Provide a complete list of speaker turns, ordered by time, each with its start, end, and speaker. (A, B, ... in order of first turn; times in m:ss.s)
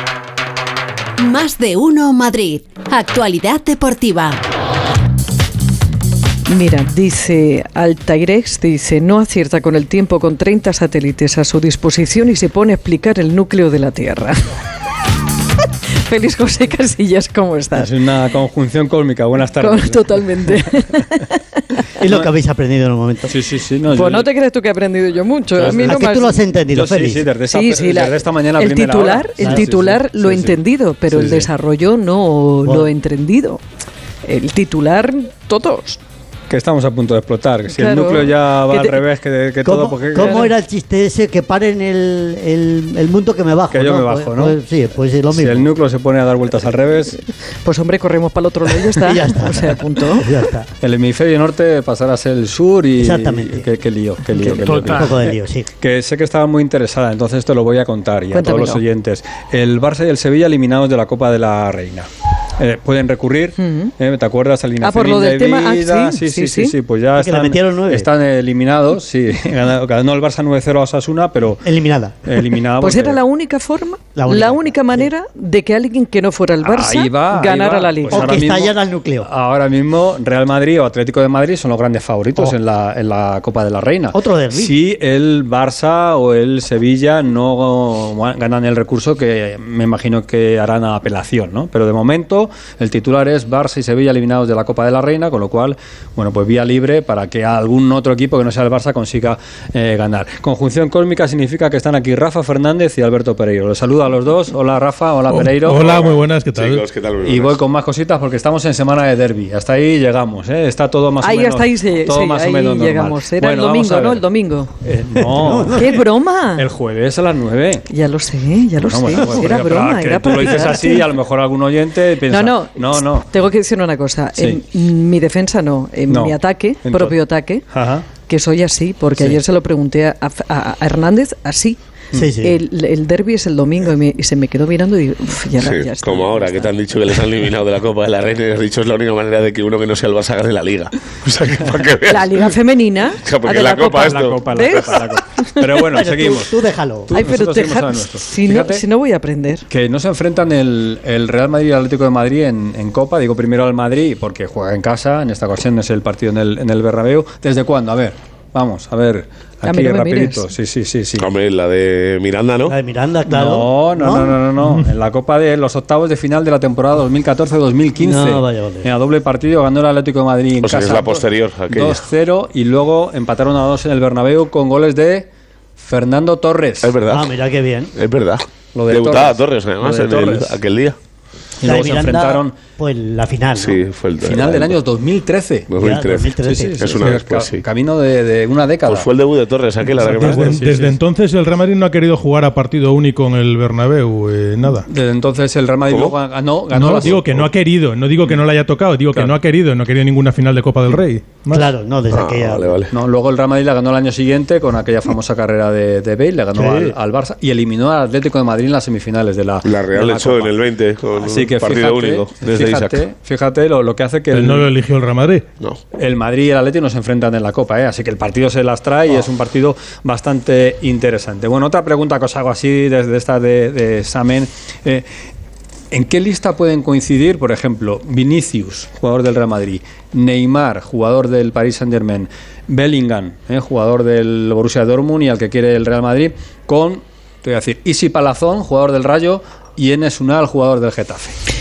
0:01.2-0:04.4 A
0:06.5-0:14.4 B
0:16.0-0:17.9 B
0:17.7-0:20.5 C
0:19.6-0:21.7 B
0:22.0-0:23.3 D
0:23.3-0:24.3 C
0:23.9-0:26.4 B
0:25.6-0:26.0 C
0:25.6-0:27.3 D
0:26.7-0:31.5 C
0:27.4-0:33.6 B
0:29.4-0:29.6 D
0:32.6-0:32.9 D
0:34.2-0:36.0 B
0:36.5-0:40.5 C
0:37.7-0:39.0 B
0:39.6-0:45.7 D
0:40.2-0:40.5 B
0:43.7-0:44.6 C
0:45.3-0:47.2 C
0:47.6-0:50.3 B
0:48.9-0:50.7 D
0:50.8-1:11.6 C
0:53.0-0:53.7 D
0:54.4-0:55.7 D
0:58.3-0:58.8 B
1:03.6-1:03.9 B
1:04.8-1:06.8 B
1:07.2-1:08.1 D
1:11.6-1:12.4 D
1:12.2-1:13.2 C
1:12.8-1:18.3 B
1:14.1-1:15.1 D
1:16.6-1:45.8 C
1:18.1-1:19.3 D
1:24.1-1:24.8 D
1:45.3-1:46.8 E
1:45.7-1:47.6 F
1:47.2-1:54.2 C
1:51.2-1:54.7 B
1:54.8-1:55.9 C
1:55.2-1:56.0 D
1:55.7-1:56.6 B
1:56.6-1:57.9 C
1:57.9-2:01.1 B
1:58.8-2:03.3 C
2:00.3-2:00.6 D
2:02.3-2:11.8 B
2:04.4-2:04.6 C
2:06.1-2:07.2 C
2:07.7-2:08.1 C
2:09.1-2:09.4 C
2:12.1-2:12.6 D
2:12.4-2:16.7 B
2:15.6-2:22.6 F
2:22.0-2:25.6 B
2:23.1-2:25.0 F
2:24.0-2:28.8 C
2:25.8-2:27.1 D
2:27.1-2:29.6 B
2:29.7-2:41.3 C
2:39.6-2:40.5 B
2:41.2-2:42.8 F
2:42.7-2:44.4 D
2:43.3-2:57.0 C
2:48.0-2:48.9 D
2:50.6-2:52.0 F
2:56.8-2:57.3 F
2:57.1-2:57.9 D
2:58.0-3:01.0 F
2:58.7-3:00.6 C
3:01.6-3:02.6 C
3:01.6-3:03.8 D
3:03.6-3:04.8 F
3:04.2-3:05.7 C
3:05.7-3:07.6 F
3:05.8-3:06.9 D
3:06.4-3:09.1 C
3:08.8-3:10.5 F
3:09.8-3:14.9 E
3:10.1-3:11.0 C
3:14.6-3:17.2 C
3:15.9-3:16.2 F
3:16.7-3:21.7 E
3:17.0-3:17.4 F
3:19.1-3:19.4 C
3:21.5-3:22.8 D
3:22.1-3:22.9 F
3:22.9-3:30.5 C
3:26.6-3:26.9 E
3:29.6-3:33.0 F
3:31.2-3:34.7 C
3:34.3-3:35.5 E
3:35.9-3:45.0 C
3:45.9-4:01.4 C